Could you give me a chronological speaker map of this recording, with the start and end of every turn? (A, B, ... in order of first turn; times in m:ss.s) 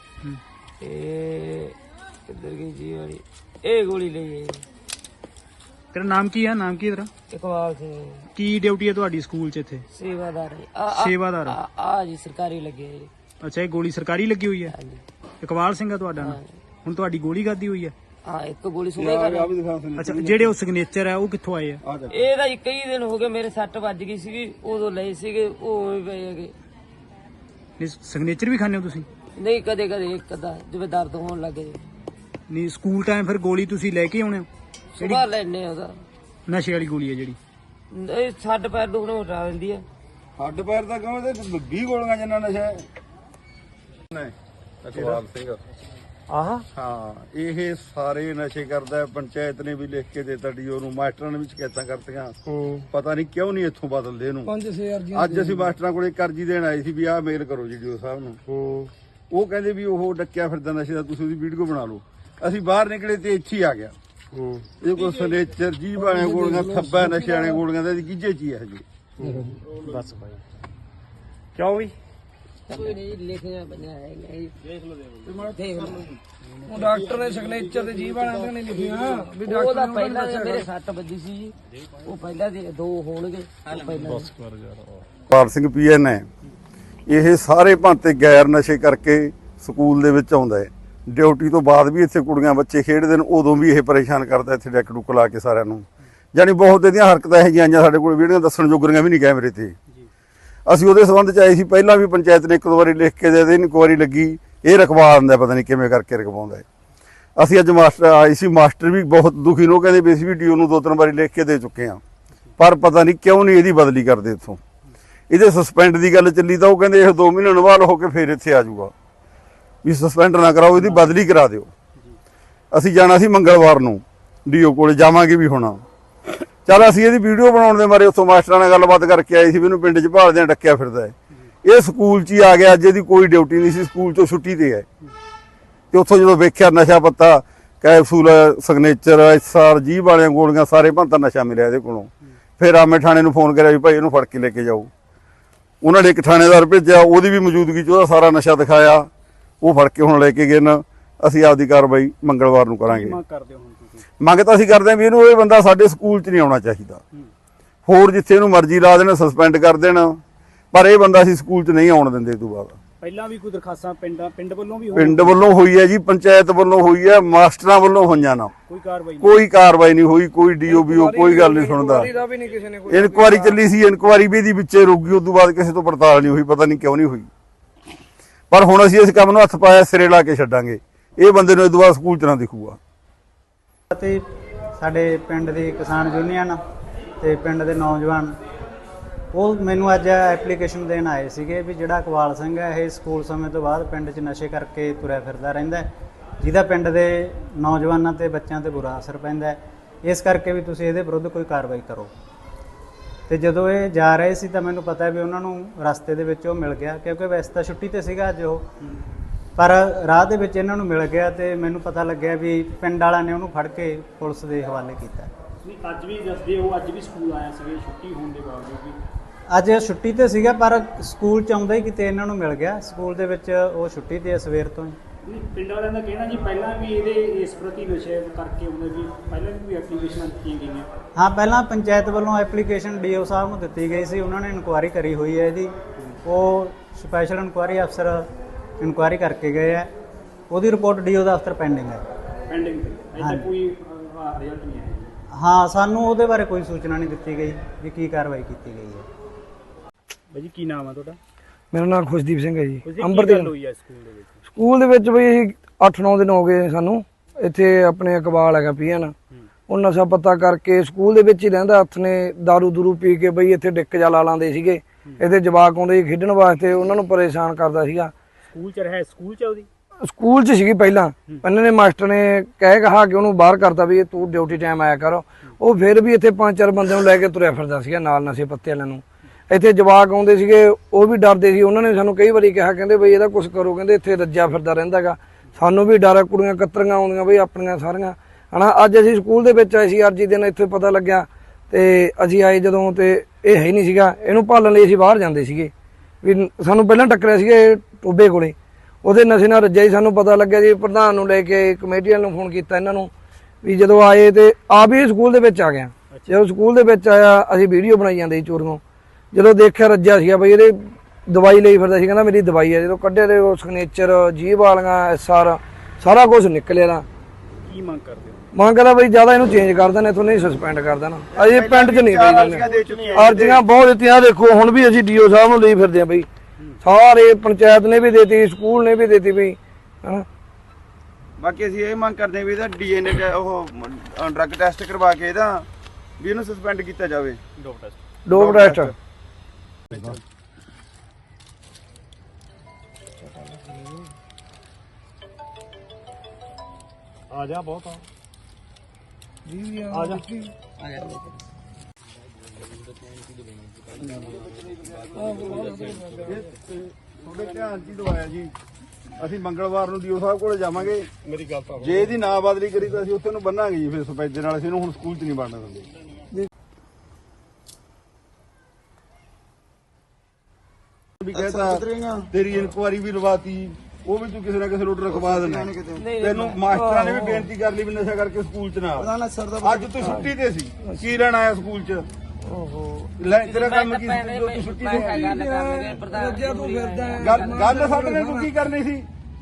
0:00.8-0:04.6 A
0:05.9-0:07.1 B
0:07.3-0:08.3 A
0:08.3-0:09.8 B
0:09.9-0:13.1 A
0:10.9-0:11.6 B
0:13.4-0:14.7 B
0:14.7-0:15.0 A
0:15.4-0:17.9 B
0:16.2-0:16.5 A
0:18.2-0:19.5 A
0:19.0-0:20.5 C
0:20.0-0:21.8 B
0:21.8-0:22.2 C
0:22.1-0:26.5 A
0:27.8-0:29.1 B
0:29.4-0:31.8 A
0:32.5-0:34.5 B
0:35.0-0:36.0 A
0:35.0-0:35.2 B
0:36.5-0:37.4 B
0:37.9-0:39.8 A
0:40.4-0:42.8 C
0:44.1-0:45.6 C
0:46.3-0:46.6 D
0:46.7-0:52.4 C
0:52.5-0:52.8 E
0:52.9-0:54.5 C
0:54.4-0:55.7 D
0:55.1-0:58.4 C
0:58.5-0:58.9 E
0:59.3-1:03.9 C
1:04.3-1:04.6 E
1:04.8-1:08.8 C
1:06.0-1:07.5 A
1:09.2-1:10.1 E
1:12.7-1:14.5 A
1:15.3-1:16.2 A
1:16.6-1:20.7 D
1:17.5-1:24.3 A
1:25.2-1:26.3 C
1:27.1-1:39.7 C
1:40.7-1:46.6 C
1:47.4-1:52.0 C
1:52.6-1:54.6 C
1:55.3-1:58.9 C
1:59.8-2:01.7 C
2:00.8-2:01.2 B
2:02.7-2:05.8 C
2:06.6-2:14.8 C
2:15.9-2:24.9 C
2:25.8-2:29.1 C
2:29.6-2:33.2 C
2:32.9-2:34.0 B
2:34.2-2:37.0 C
2:37.8-2:40.2 C
2:40.7-2:42.8 C
2:43.0-2:45.4 B
2:44.9-2:48.5 C
2:48.7-2:49.4 B
2:49.2-2:52.1 C
2:50.7-2:53.6 D
2:52.9-2:57.3 C
2:58.5-3:02.8 C
3:03.9-3:04.2 F
3:04.8-3:06.6 F
3:07.2-3:08.3 F
3:09.3-3:15.9 F
3:16.4-3:22.1 F
3:23.3-3:28.6 F
3:29.6-3:35.3 F
3:35.6-3:39.0 B
3:39.5-3:45.0 F
3:45.2-3:50.9 B
3:51.2-3:55.7 F
3:56.2-3:58.3 F
3:58.8-3:59.9 F
4:00.5-4:02.0 F
4:02.5-4:05.1 B
4:03.2-4:03.5 F
4:05.3-4:09.1 F
4:10.3-4:11.2 B
4:11.7-4:13.5 D
4:12.8-4:14.3 B
4:14.5-4:19.1 D
4:19.7-4:28.1 D
4:28.5-4:29.7 B
4:30.0-4:55.7 D
4:56.2-5:03.1 D
5:03.6-5:08.8 D
5:06.1-5:06.4 B
5:09.3-5:17.0 D
5:17.6-5:18.4 B
5:18.5-5:26.3 D
5:21.3-5:23.6 E
5:22.5-5:23.4 B
5:26.8-5:30.2 D
5:31.4-5:35.6 E
5:36.3-5:37.2 E
5:37.1-5:37.4 C
5:37.6-5:38.0 B
5:38.3-5:38.9 D
5:43.4-5:44.0 A
5:47.3-5:48.0 B
5:49.4-5:50.5 D
5:49.9-5:50.2 B
5:50.8-5:51.4 A
5:55.1-5:56.3 D
5:56.2-5:58.5 C
5:59.2-6:01.1 C
6:01.6-6:05.9 C
6:11.2-6:22.0 C
6:11.5-6:12.2 E
6:15.5-6:15.9 E
6:15.9-6:16.6 A
6:16.7-6:17.5 D
6:19.0-6:19.9 E
6:22.5-6:27.7 A
6:23.2-6:25.2 C
6:24.9-6:28.5 D
6:27.2-6:29.1 C